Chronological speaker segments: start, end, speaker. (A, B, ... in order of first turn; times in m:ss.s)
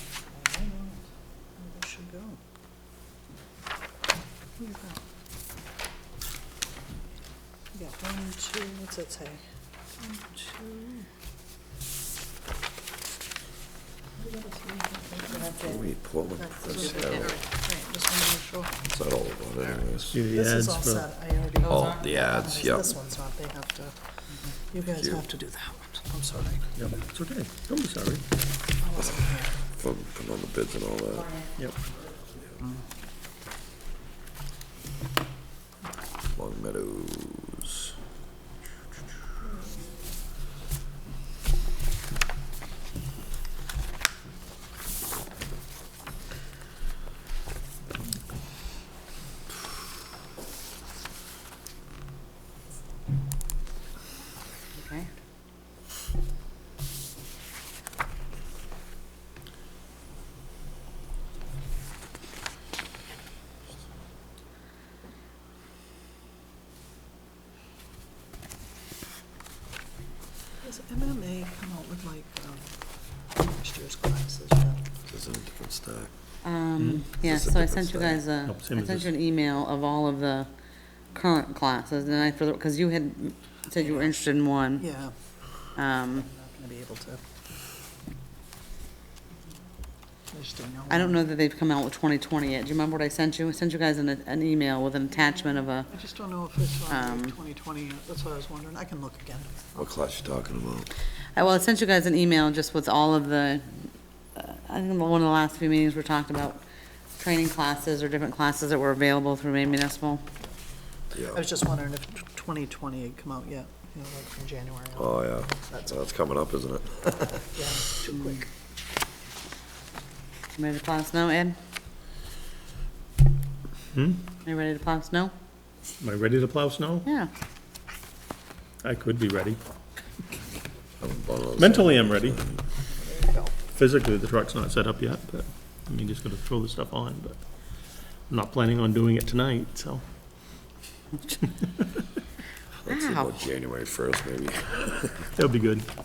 0:00.3-0:01.0 A
0:01.6-0:02.4 A
0:04.6-0:05.0 A
0:07.7-0:09.4 A
0:10.0-0:11.0 A
0:14.3-0:15.4 A
0:15.3-0:15.8 B
0:15.6-0:17.4 C
0:16.6-0:18.8 A
0:18.9-0:20.2 C
0:20.1-0:21.1 D
0:20.4-0:24.0 A
0:21.6-0:21.9 B
0:21.7-0:22.9 C
0:24.7-0:26.7 A
0:26.8-0:28.2 D
0:28.8-0:29.5 A
0:29.0-0:31.4 C
0:36.4-0:37.9 C
0:54.8-0:55.1 B
1:10.6-1:12.7 A
1:13.4-1:14.8 A
1:15.1-1:16.1 C
1:16.4-1:20.5 B
1:16.8-1:17.1 D
1:17.2-1:18.2 C
1:18.5-1:19.1 D
1:21.1-1:24.9 B
1:24.8-1:25.1 A
1:25.8-1:26.3 B
1:26.3-1:27.2 A
1:30.3-1:31.2 A
1:30.9-1:35.9 B
1:35.9-1:39.7 A
1:36.9-1:37.4 B
1:39.8-1:40.9 C
1:41.4-1:46.6 B
1:47.2-1:50.2 B
1:51.1-1:51.4 C
1:51.3-1:55.1 A
1:55.0-1:57.6 C
1:57.6-1:58.4 A
2:00.6-2:01.6 B
2:03.9-2:04.2 D
2:04.4-2:05.3 B
2:06.0-2:07.1 D
2:08.8-2:09.6 D
2:11.0-2:12.6 C
2:11.6-2:12.4 D
2:13.0-2:13.5 A
2:13.8-2:17.5 D
2:18.3-2:20.1 D
2:21.4-2:21.8 D
2:22.9-2:23.3 B
2:22.9-2:25.3 C
2:25.4-2:25.9 D